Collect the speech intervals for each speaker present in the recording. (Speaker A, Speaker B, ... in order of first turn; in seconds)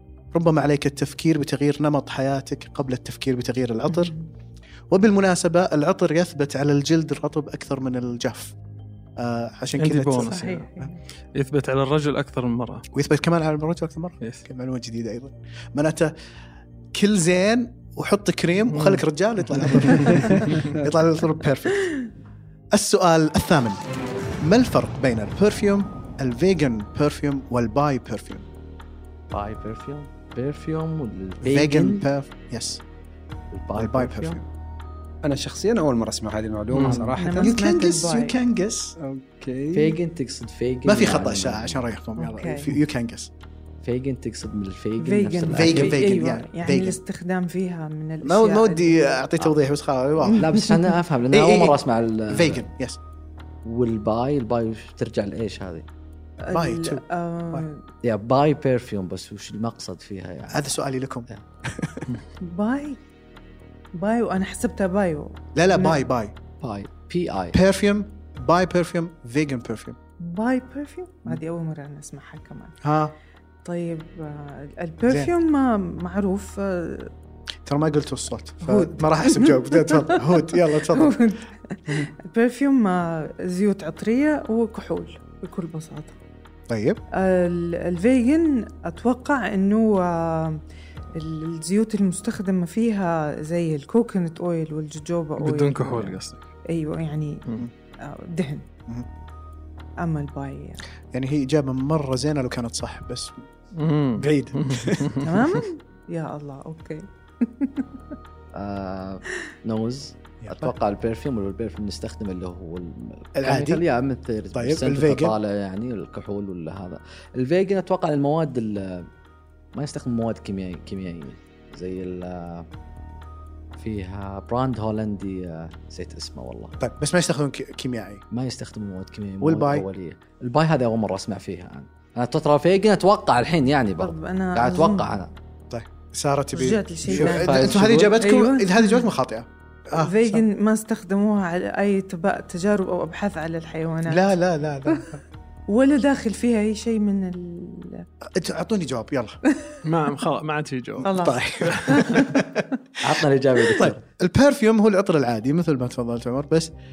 Speaker A: 0.3-4.1, 4.9-8.5, 9.2-10.4, 12.9-16.1, 16.9-21.9, 22.7-23.8, 24.4-28.4, 31.4-32.8, 33.7-34.4, 37.4-38.9, 40.8-43.3, 45.5-47.0, 48.2-50.5, 51.3-53.0, 56.5-57.0, 60.5-62.1, 65.5-66.3, 67.5-70.0, 72.8-73.1, 75.1-75.3, 77.7-81.2, 86.7-87.0, 101.1-103.4, 104.2-105.2, 110.4-110.7, 113.4-113.8, 114.5-115.3, 126.8-128.2, 129.4-129.8, 135.7-140.4, 144.1-145.1, 148.4-149.4, 151.0-152.7, 153.8-156.7
Speaker B: 3.9-4.2, 10.2-11.0, 19.9-20.5, 37.2-38.4, 42.2-42.7, 45.0-49.2, 50.2-50.9, 56.4-57.8, 62.4-63.0, 63.9-66.1, 70.2-72.8, 73.6-77.1, 78.6-86.2, 87.2-90.6, 91.2-96.2, 96.7-98.7, 100.0-100.8, 105.2-108.1, 134.0-135.1, 136.5-139.1, 140.0-145.1, 145.7-148.1, 149.5-149.7, 151.0-152.4
Speaker C: 9.8-10.7, 11.3-12.8, 18.7-19.0, 19.7-20.3, 95.4-96.4, 103.8-105.4, 149.8-151.1
Speaker D: 29.3-32.0, 33.5-34.4, 36.8-37.2, 39.7-41.9, 43.8-46.1, 50.4-52.6, 53.6-55.9, 58.0-61.4, 66.6-67.6, 108.5-119.1, 119.7-122.7, 123.8-126.7, 128.3-135.3, 137.1-138.2, 153.0-154.0
Speaker E: 35.2-37.5, 39.0-40.0